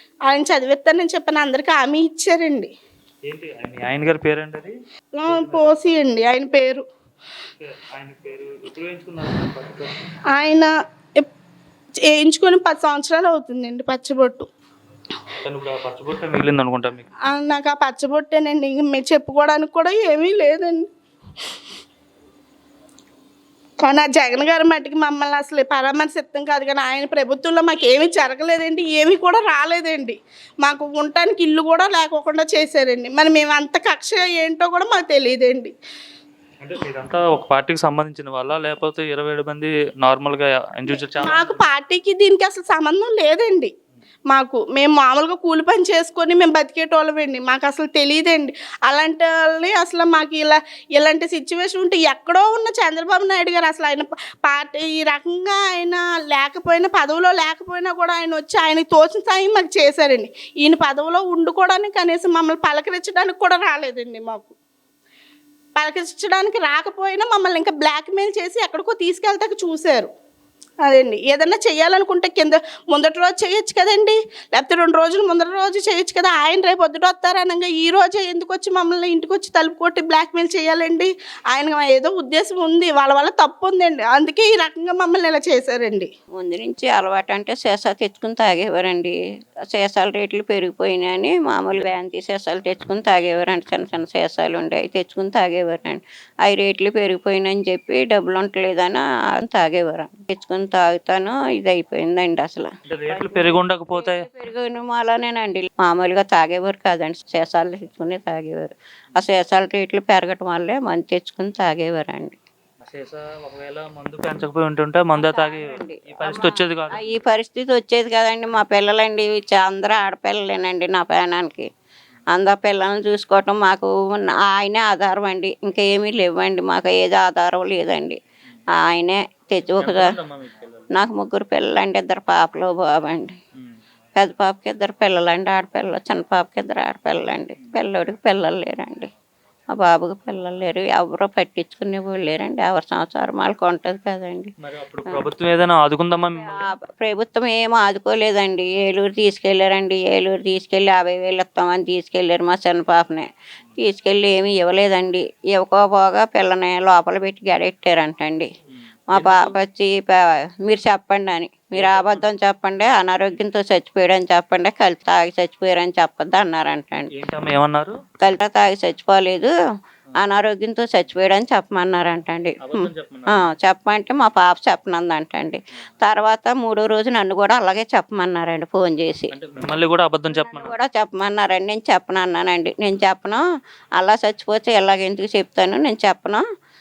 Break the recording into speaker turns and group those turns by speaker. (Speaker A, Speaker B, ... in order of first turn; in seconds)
Speaker A: 0.3-2.7, 5.2-6.8, 10.3-11.3, 12.1-14.5, 17.3-20.9, 23.8-35.7, 41.2-43.7, 44.3-64.5, 65.8-70.1, 70.8-86.1
Speaker B: 3.2-4.8, 5.3-5.7, 7.6-10.0, 15.4-17.1, 36.6-41.6, 102.9-104.2, 112.8-117.0, 129.8-130.9, 144.6-146.7, 159.1-159.5, 161.7-162.3, 167.1-168.0, 172.6-173.4, 179.3-180.7
Speaker C: 86.4-89.2, 89.7-112.4, 115.2-121.7, 122.3-128.2, 128.7-130.1, 130.9-133.3, 134.1-139.1, 139.7-144.5, 146.4-158.5, 159.1-167.1, 168.2-169.5, 170.2-179.3, 180.3-183.4, 184.0-186.4